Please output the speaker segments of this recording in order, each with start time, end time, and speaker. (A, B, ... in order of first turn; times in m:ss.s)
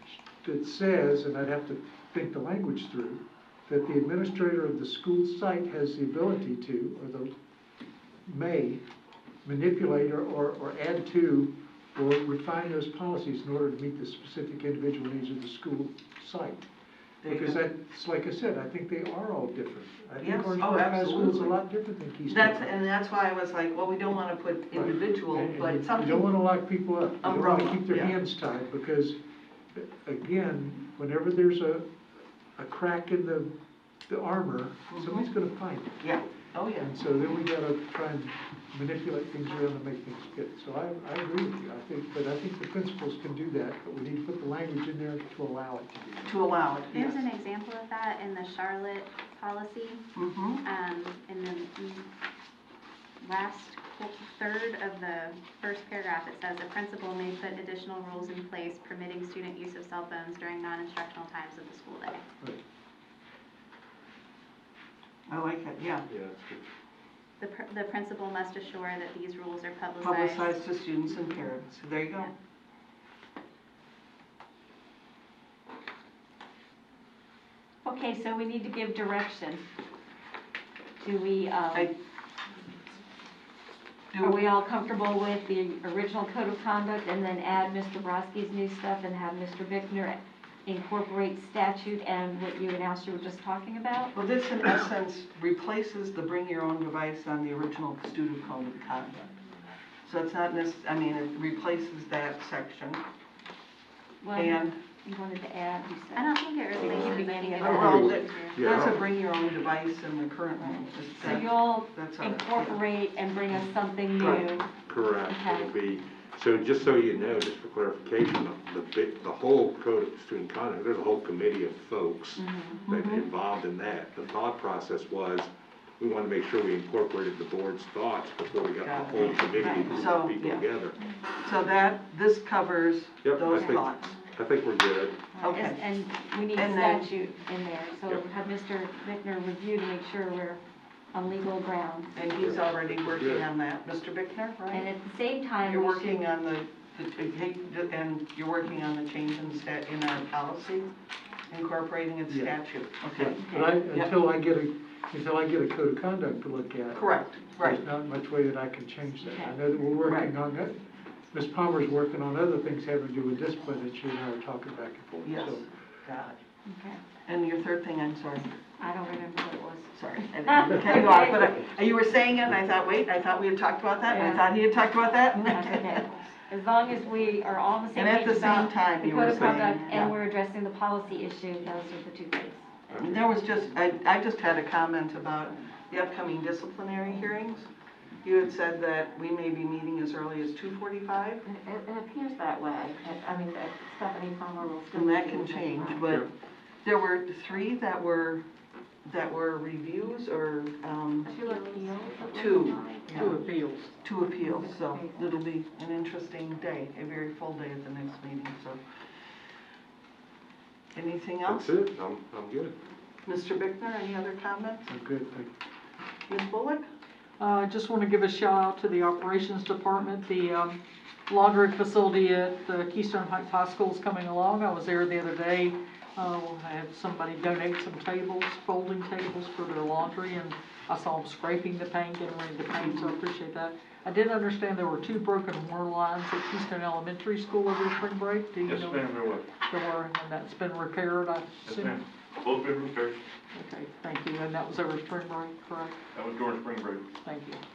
0:00.4-0:07.3 A
0:08.2-0:08.8 A
0:09.4-0:16.7 A
0:17.2-0:17.6 B
0:17.3-0:22.7 A
0:20.2-0:21.6 B
0:22.3-0:26.3 B
0:24.7-0:29.2 A
0:27.2-0:28.1 B
0:29.8-0:31.9 A
0:32.6-0:33.5 A
0:34.1-0:36.0 A
0:34.9-0:35.3 B
0:36.0-0:36.9 B
0:36.8-0:46.3 A
0:46.3-0:47.3 B
0:46.9-0:50.0 C
0:50.2-0:50.6 B
0:50.6-0:52.1 C
0:53.2-1:02.2 C
1:05.3-1:06.1 B
1:06.1-1:06.6 D
1:07.4-1:10.6 C
1:10.0-1:12.3 B
1:17.8-1:19.6 E
1:21.0-1:21.9 E
1:24.1-1:24.5 B
1:24.2-1:34.1 E
1:34.1-1:39.3 B
1:40.0-1:43.0 B
1:44.2-1:48.2 E
1:44.3-1:44.8 B
1:46.1-1:48.7 C
1:47.6-1:48.2 F
1:47.6-1:49.0 D
1:47.7-1:52.8 B
1:51.2-1:54.7 E
1:54.2-1:54.4 B
1:54.8-2:11.0 D
1:55.3-1:55.7 E
2:02.4-2:02.8 E
2:02.9-2:03.3 B
2:08.8-2:10.7 B
2:11.3-2:14.1 B
2:13.2-2:15.2 D
2:15.3-2:20.6 E
2:15.4-2:15.8 B
2:16.6-2:17.1 B
2:21.1-2:22.2 E
2:22.1-2:24.9 B
2:22.4-2:23.5 D
2:24.7-2:26.3 E
2:25.6-2:30.9 B
2:31.5-2:34.1 B
2:32.3-2:32.6 A
2:33.1-2:37.1 A
2:36.9-2:37.8 B
2:37.6-2:46.3 A
2:40.0-2:40.3 B
2:45.2-2:46.3 B
2:46.7-2:47.0 E
2:47.2-2:48.5 B
2:48.8-2:51.5 E
2:49.9-2:56.0 B
2:54.1-2:54.4 E
2:55.4-2:56.0 F
2:55.4-3:03.2 E
2:57.9-3:00.2 B
3:03.0-3:07.7 B
3:08.2-3:11.4 B
3:11.5-3:16.0 F
3:14.6-3:15.8 E
3:14.9-3:16.3 B
3:16.8-3:18.4 B
3:19.0-3:21.3 B
3:21.3-3:23.1 E
3:21.4-3:23.0 F
3:22.2-3:23.4 B
3:23.1-3:24.0 G
3:24.0-3:28.8 B
3:24.6-3:25.1 E
3:30.9-3:31.7 B
3:31.4-3:32.7 D
3:33.2-3:34.9 B
3:34.9-3:35.5 A
3:36.3-3:36.8 B
3:37.4-4:02.0 G
3:58.7-3:59.3 H
4:02.4-4:03.0 H
4:03.5-4:06.0 G
4:06.2-4:07.1 H
4:07.2-4:07.6 G